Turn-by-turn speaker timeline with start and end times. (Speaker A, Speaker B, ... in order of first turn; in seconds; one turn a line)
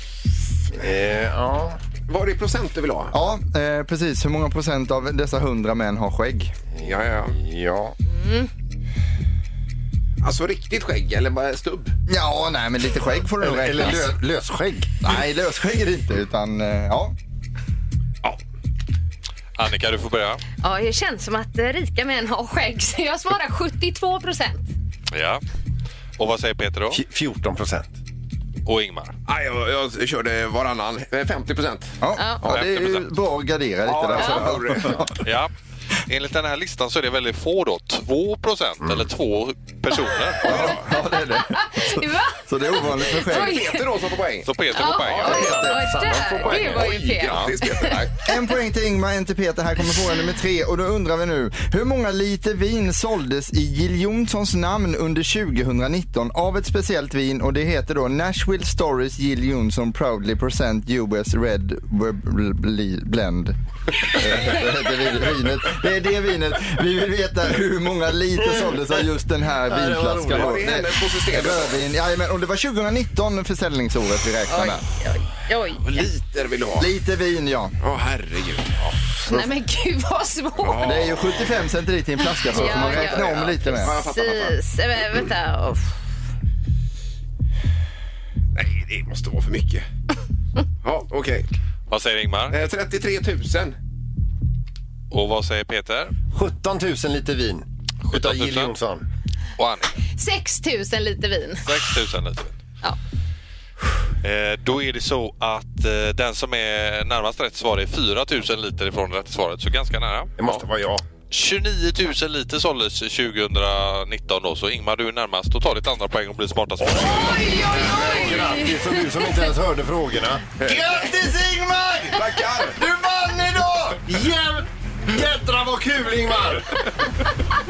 Speaker A: 0.7-1.8
Speaker B: 2.1-3.1
Speaker C: 3.1-6.5
Speaker A: 6.8-8.0
Speaker B: 6.8-7.3
Speaker D: 8.1-8.5
Speaker B: 10.2-11.9
Speaker C: 12.1-14.2
Speaker A: 13.4-14.9
Speaker C: 15.0-17.1
Speaker E: 19.6-20.4
Speaker D: 20.6-24.7
Speaker E: 25.1-25.4
Speaker E: 26.2-27.0
Speaker A: 26.9-28.0
Speaker E: 28.7-29.1
Speaker B: 29.3-32.8
Speaker C: 32.0-35.1
Speaker D: 32.2-32.4
Speaker E: 32.5-33.0
Speaker B: 33.9-35.0
Speaker D: 34.2-34.4
Speaker E: 35.2-35.5
Speaker E: 36.1-40.6
Speaker C: 40.4-43.6
Speaker B: 40.5-40.8
Speaker D: 41.4-43.9
Speaker B: 43.2-48.2
Speaker E: 44.5-45.7
Speaker D: 44.8-48.1
Speaker A: 45.3-47.6
Speaker C: 48.2-74.8
Speaker A: 69.7-70.8
Speaker B: 70.3-71.8
Speaker D: 74.5-76.1
Speaker B: 75.8-76.9
Speaker C: 76.8-77.8
Speaker B: 77.8-78.8
Speaker D: 79.2-80.8
Speaker B: 80.6-81.4
Speaker C: 80.8-84.0
Speaker D: 82.5-86.0
Speaker B: 82.5-84.6
Speaker B: 88.5-89.9
Speaker B: 90.8-91.5
Speaker E: 91.9-92.6
Speaker B: 92.5-93.8
Speaker E: 95.1-96.1
Speaker A: 96.3-99.0
Speaker E: 98.1-98.8
Speaker E: 99.6-99.9
Speaker D: 100.2-101.9
Speaker E: 101.6-102.5
Speaker E: 104.2-110.3
Speaker A: 110.4-111.0
Speaker E: 111.3-117.4
Speaker A: 116.8-126.8
Speaker D: 117.2-119.4
Speaker B: 120.6-121.1
Speaker B: 122.1-122.8